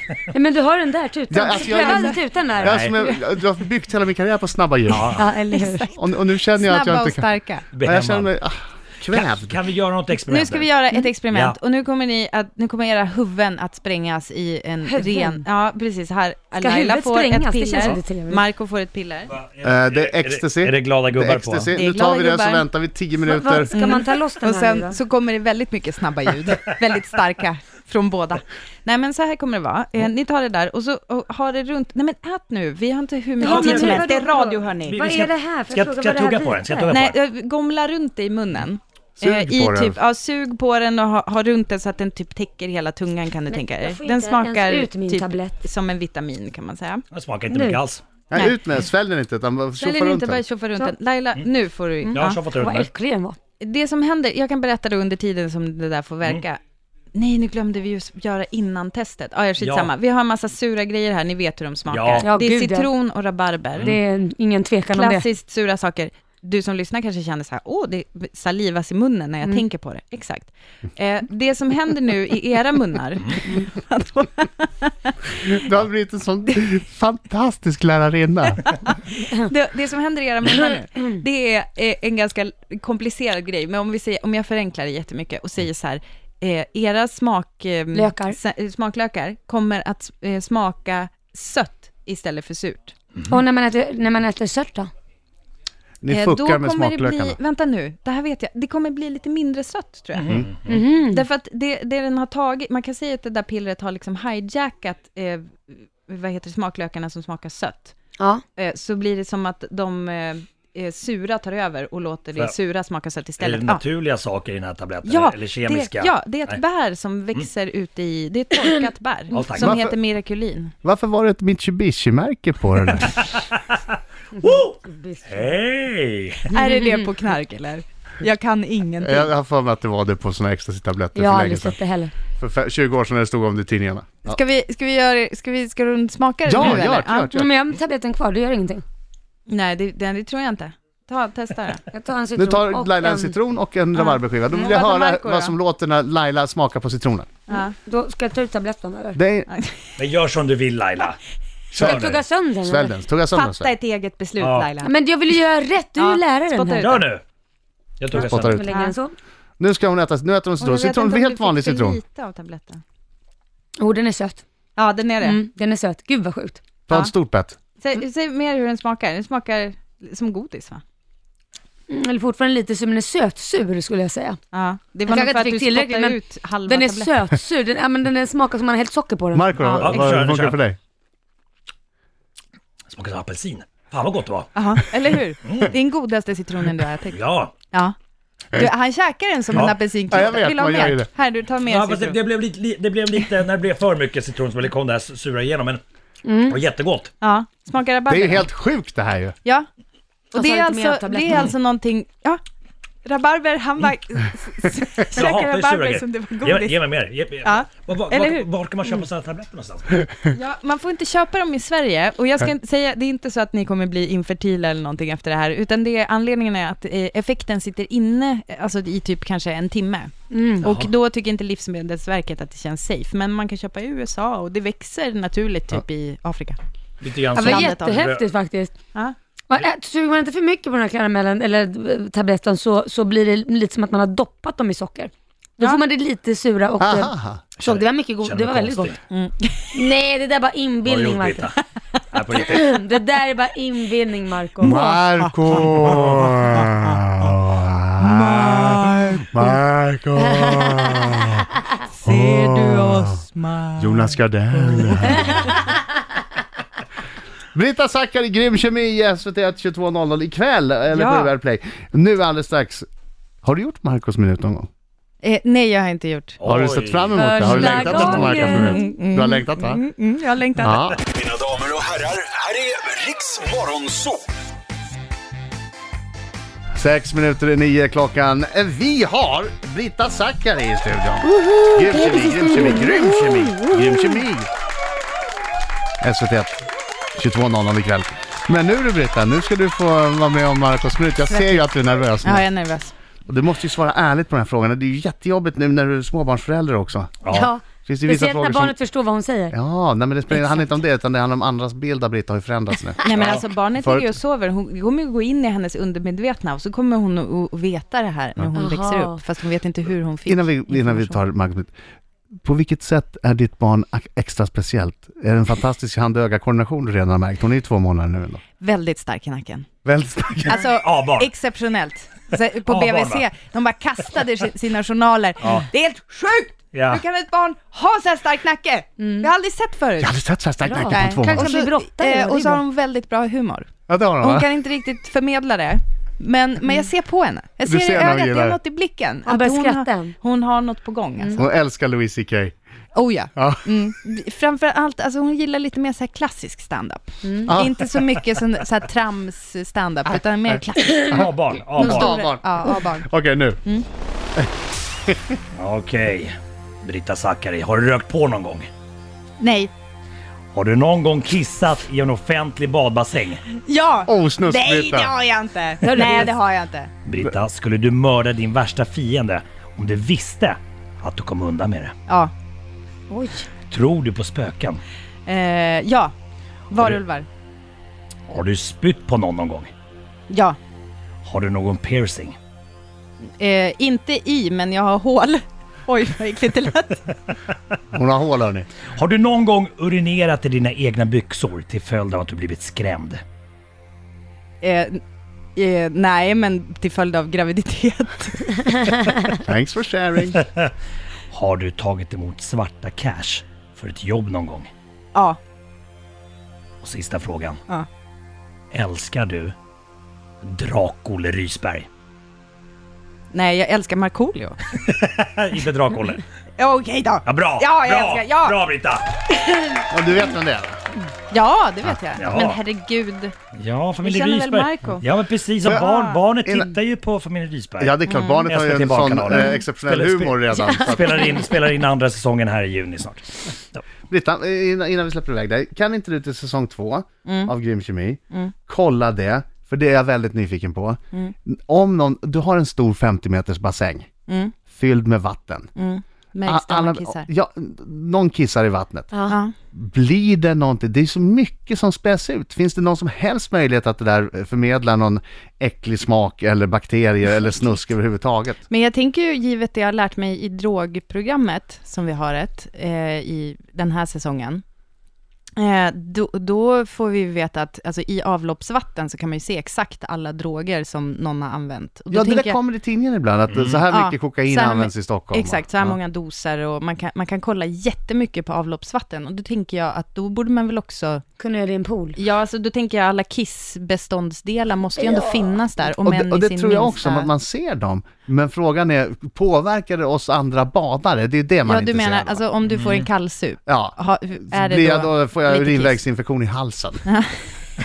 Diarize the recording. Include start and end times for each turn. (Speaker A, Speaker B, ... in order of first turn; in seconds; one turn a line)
Speaker A: 0.3-3.2
Speaker B: 1.3-5.2
Speaker C: 1.9-2.1
Speaker D: 2.5-2.9
Speaker D: 4.9-5.2
Speaker A: 5.1-5.9
Speaker C: 5.5-5.8
Speaker B: 5.9-9.6
Speaker C: 6.5-7.7
Speaker D: 7.7-8.3
Speaker D: 9.0-11.6
Speaker C: 10.2-19.4
Speaker A: 14.8-15.5
Speaker A: 16.5-18.4
Speaker D: 17.7-18.0
Speaker D: 19.3-21.7
Speaker B: 19.6-23.8
Speaker C: 21.7-22.7
Speaker A: 23.2-25.0
Speaker C: 23.7-35.3
Speaker A: 33.4-36.9
Speaker D: 33.4-34.2
Speaker D: 34.9-37.2
Speaker C: 36.9-47.0
Speaker B: 39.2-40.0
Speaker A: 43.5-45.6
Speaker D: 47.1-48.0
Speaker A: 47.5-47.8
Speaker B: 48.3-50.4
Speaker C: 49.8-52.4
Speaker A: 49.9-51.0
Speaker A: 52.0-53.4
Speaker D: 52.1-52.9
Speaker C: 53.6-56.6
Speaker C: 57.1-63.9
Speaker D: 59.6-59.9
Speaker D: 61.9-62.3
Speaker A: 62.2-63.0
Speaker A: 63.8-65.3
Speaker C: 64.9-75.2
Speaker B: 75.4-78.6
Speaker C: 79.5-93.0
Speaker A: 87.9-88.4
Speaker A: 93.3-94.9
Speaker B: 96.0-97.4
Speaker C: 96.1-100.4
Speaker D: 100.2-100.8
Speaker A: 100.7-101.2
Speaker C: 101.1-108.0
Speaker A: 108.2-108.4
Speaker C: 108.6-113.8
Speaker D: 113.4-116.6
Speaker C: 115.0-120.7
Speaker D: 119.3-119.9
Speaker B: 119.6-120.0
Speaker B: 120.8-123.3
Speaker D: 122.9-123.8
Speaker D: 124.4-126.5
Speaker A: 124.4-125.4
Speaker C: 126.5-129.3
Speaker B: 129.0-131.8
Speaker A: 131.2-132.1
Speaker B: 132.4-134.4
Speaker C: 134.3-137.2
Speaker B: 136.5-137.5
Speaker A: 136.6-138.8
Speaker C: 139.5-141.9
Speaker A: 141.9-143.4
Speaker B: 142.3-147.3
Speaker C: 143.9-145.5
Speaker C: 147.5-147.8
Speaker A: 147.5-149.2
Speaker B: 149.2-149.5
Speaker C: 149.5-149.9
Speaker D: 150.0-151.2
Speaker B: 151.7-153.7
Speaker A: 151.8-152.9
Speaker D: 151.8-152.1
Speaker C: 153.3-154.9
Speaker D: 154.4-154.7
Speaker A: 154.8-157.0
Speaker C: 156.0-156.9
Speaker D: 156.8-157.2
Speaker D: 158.0-158.6
Speaker B: 158.1-158.7
Speaker A: 158.4-159.2
Speaker C: 158.7-159.0
Speaker B: 159.6-162.0
Speaker C: 160.6-162.8
Speaker A: 163.8-164.4
Speaker C: 164.8-165.4
Speaker A: 165.2-166.6
Speaker B: 166.9-167.6
Speaker C: 167.8-170.8
Speaker A: 171.9-174.4
Speaker C: 174.5-177.1
Speaker A: 175.1-179.6
Speaker B: 179.3-180.8
Speaker D: 179.8-180.6
Speaker D: 182.9-184.9
Speaker C: 184.6-187.9
Speaker D: 185.4-185.8
Speaker D: 187.1-187.5
Speaker C: 188.5-192.2
Speaker B: 189.6-191.1
Speaker D: 191.6-195.8
Speaker A: 196.2-196.6
Speaker D: 196.5-197.1
Speaker C: 197.2-198.4
Speaker B: 198.1-199.4
Speaker A: 200.3-201.5
Speaker C: 200.3-202.4
Speaker C: 203.1-208.5
Speaker D: 205.1-210.1
Speaker C: 210.3-226.6
Speaker A: 220.3-220.7
Speaker D: 220.6-220.9
Speaker D: 227.0-228.2
Speaker A: 227.3-228.8
Speaker C: 227.4-228.1
Speaker A: 229.5-239.0
Speaker B: 236.8-237.4
Speaker D: 237.6-239.0
Speaker C: 239.1-239.8
Speaker A: 239.7-241.5
Speaker D: 240.9-241.6
Speaker D: 242.1-242.7
Speaker A: 242.4-244.8
Speaker B: 244.6-251.4
Speaker C: 244.7-246.0
Speaker C: 248.0-249.2
Speaker A: 250.3-251.4
Speaker C: 251.9-255.0
Speaker B: 252.1-253.2
Speaker B: 253.8-255.5
Speaker A: 255.1-255.5
Speaker B: 257.5-262.9
Speaker C: 260.9-261.3
Speaker B: 263.4-264.7
Speaker C: 265.2-266.4
Speaker D: 266.4-268.5
Speaker B: 266.4-269.8
Speaker A: 267.1-268.9
Speaker C: 268.4-270.9
Speaker B: 270.6-271.0
Speaker E: 271.1-274.2
Speaker B: 276.7-284.5
Speaker A: 281.2-284.1
Speaker B: 286.0-286.7
Speaker B: 287.2-292.4
Speaker C: 292.2-292.9
Speaker B: 293.3-298.8
Speaker D: 297.2-297.5
Speaker A: 297.3-299.6
Speaker B: 299.5-304.1
Speaker D: 303.0-303.4
Speaker C: 303.1-311.2
Speaker A: 308.6-309.2
Speaker B: 310.3-311.7
Speaker B: 312.4-318.4
Speaker C: 318.6-319.7
Speaker B: 319.9-320.6
Speaker C: 320.5-330.2
Speaker D: 320.5-321.3
Speaker D: 322.7-323.3
Speaker D: 325.4-325.7
Speaker D: 326.7-327.0
Speaker A: 329.0-329.3
Speaker B: 330.0-331.6
Speaker A: 330.6-332.6
Speaker C: 330.9-333.7
Speaker B: 333.9-334.5
Speaker C: 334.2-341.5
Speaker B: 337.6-338.6
Speaker A: 339.2-340.2
Speaker B: 341.4-342.5
Speaker C: 342.9-351.1
Speaker B: 343.4-343.7
Speaker A: 347.2-347.6
Speaker B: 347.5-347.9
Speaker B: 350.5-353.6
Speaker D: 351.1-352.2
Speaker C: 351.8-353.1
Speaker B: 355.1-355.4
Speaker D: 355.6-358.7
Speaker C: 359.4-359.7
Speaker D: 360.5-363.4
Speaker C: 363.6-366.9
Speaker B: 364.1-365.1
Speaker A: 365.9-366.3
Speaker D: 367.1-371.9
Speaker C: 372.1-372.3
Speaker A: 373.1-373.5
Speaker D: 373.7-374.8
Speaker C: 375.3-376.1
Speaker C: 376.7-377.3
Speaker D: 378.3-379.7
Speaker C: 380.3-380.6
Speaker D: 381.2-382.4
Speaker C: 383.4-387.1
Speaker B: 387.9-388.7
Speaker D: 388.9-393.2
Speaker C: 394.6-395.0
Speaker C: 395.6-398.9
Speaker B: 399.3-400.4
Speaker D: 400.4-400.7
Speaker D: 401.3-404.7
Speaker C: 405.1-405.4
Speaker D: 406.8-407.6
Speaker D: 408.7-409.6
Speaker D: 410.4-411.9
Speaker C: 413.3-414.6
Speaker D: 414.7-416.2
Speaker C: 416.6-418.6
Speaker D: 417.2-419.1
Speaker B: 419.9-420.8
Speaker C: 421.3-423.4
Speaker D: 422.2-422.6
Speaker D: 423.5-433.8
Speaker C: 424.0-425.1
Speaker B: 425.6-426.8
Speaker B: 427.8-431.4
Speaker C: 428.1-428.5
Speaker B: 434.1-444.1
Speaker C: 437.2-437.5
Speaker C: 444.3-444.6
Speaker B: 444.7-445.7
Speaker C: 445.8-447.3
Speaker B: 446.5-449.1
Speaker A: 449.1-449.4
Speaker C: 449.3-449.5
Speaker B: 449.7-458.6
Speaker C: 458.7-464.6
Speaker C: 465.6-472.6
Speaker B: 472.1-476.0
Speaker D: 473.5-473.8
Speaker C: 473.9-481.2
Speaker A: 481.4-482.2
Speaker C: 482.2-487.3
Speaker A: 485.0-485.5
Speaker B: 486.0-492.4
Speaker C: 491.6-496.0
Speaker D: 492.7-493.1
Speaker B: 493.7-494.0
Speaker B: 494.5-497.0
Speaker C: 497.1-497.4